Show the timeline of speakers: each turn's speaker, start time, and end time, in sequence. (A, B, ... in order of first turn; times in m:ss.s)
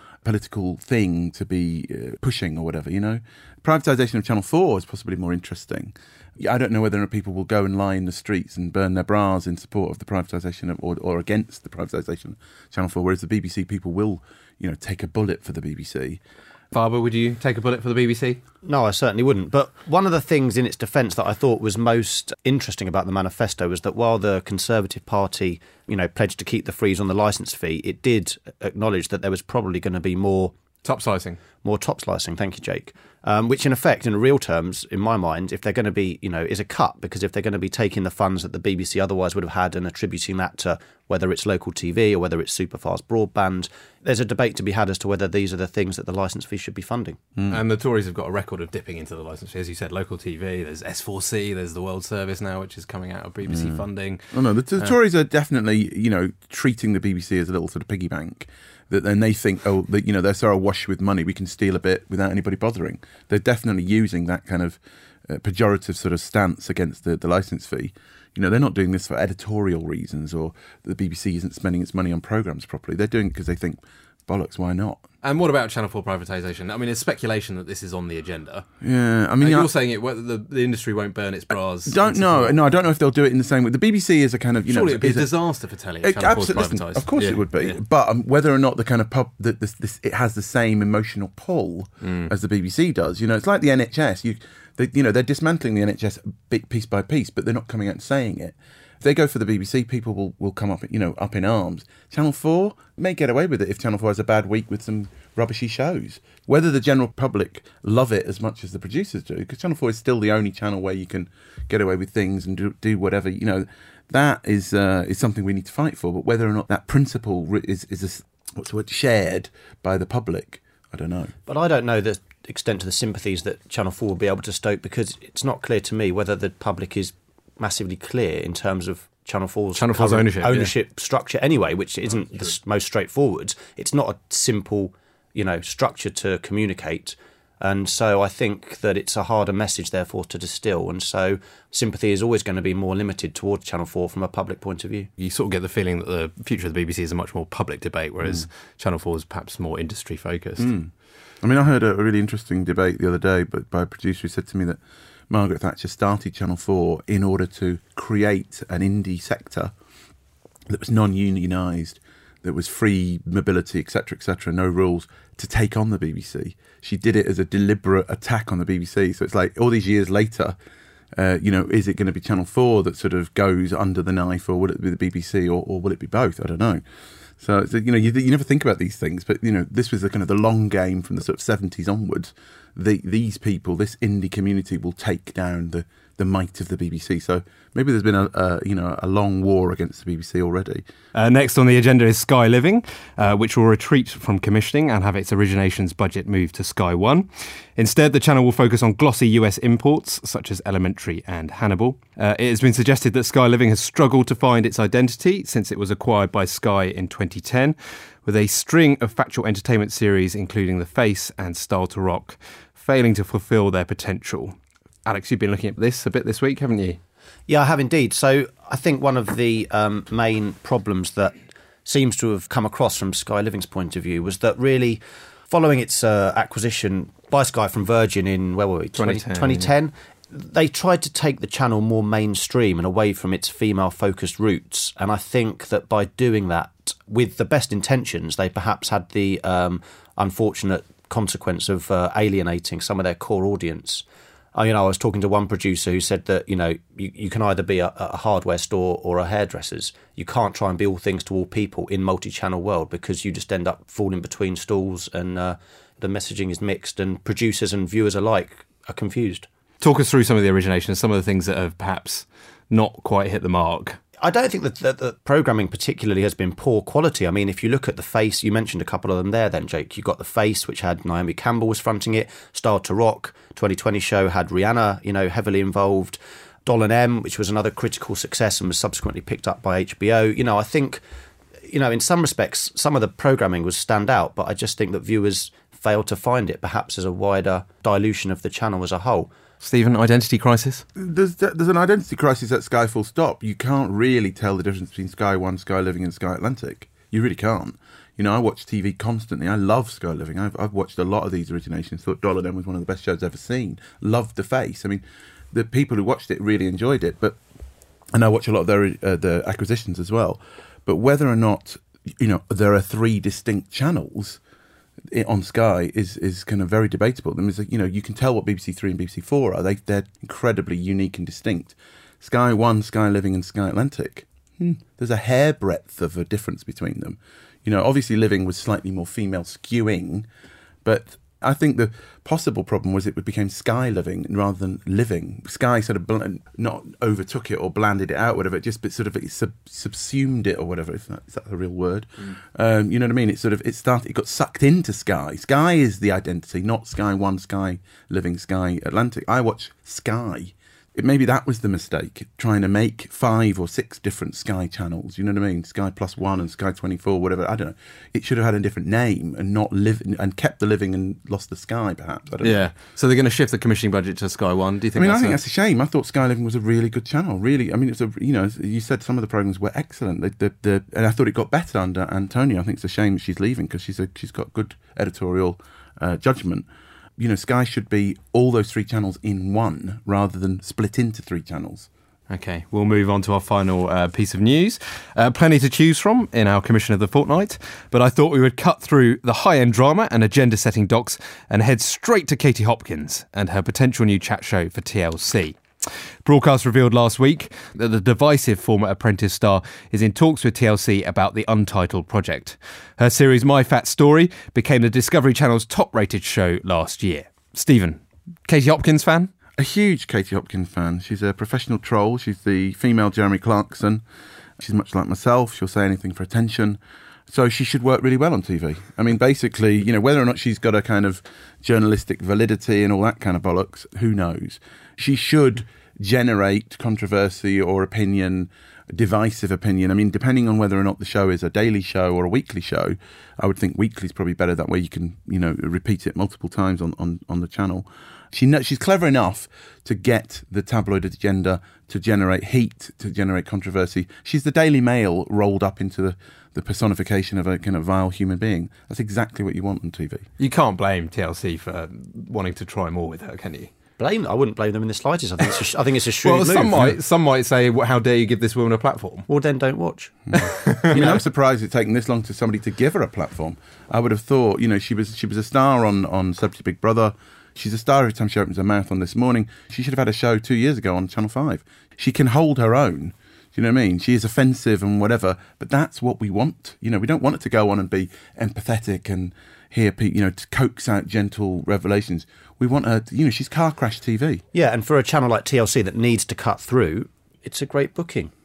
0:00.2-0:16.2 A
0:16.7-0:18.4 B
0:18.6-0:30.5 C
0:30.8-0:31.4 B
0:31.6-0:47.2 C
0:47.4-0:47.6 A
0:47.5-0:55.0 B
0:53.5-1:15.0 A
1:15.2-1:18.7 B
1:18.8-1:19.7 A
1:19.4-1:22.6 B
1:21.8-1:25.3 A
1:24.7-1:27.8 B
1:26.0-2:01.3 A
1:32.0-1:32.3 B
2:01.5-2:25.1 C
2:09.8-2:10.8 B
2:25.2-2:30.7 B
2:28.2-2:28.5 A
2:30.6-2:34.8 A
2:35.3-2:39.7 A
2:40.7-2:50.6 A
2:51.2-2:56.8 A
2:57.4-3:10.8 A
3:11.1-3:37.0 B
3:37.5-4:19.5 C
3:49.0-3:49.7 B
4:19.8-4:24.0 B
4:24.2-4:41.0 C
4:41.7-4:49.3 C
4:49.6-4:50.8 B
4:51.0-5:07.4 A
5:08.1-5:14.4 A
5:15.1-5:30.3 A
5:30.8-6:02.6 A
6:02.4-6:05.4 B
6:05.0-6:21.9 A
6:22.3-6:49.3 B
6:49.6-6:54.0 A
6:54.6-7:30.3 A
7:30.4-7:33.7 B
7:34.0-7:36.8 C
7:36.2-7:39.3 B
7:39.3-7:41.2 C
7:40.3-8:04.4 A
7:40.4-7:41.1 B
8:04.5-8:08.3 C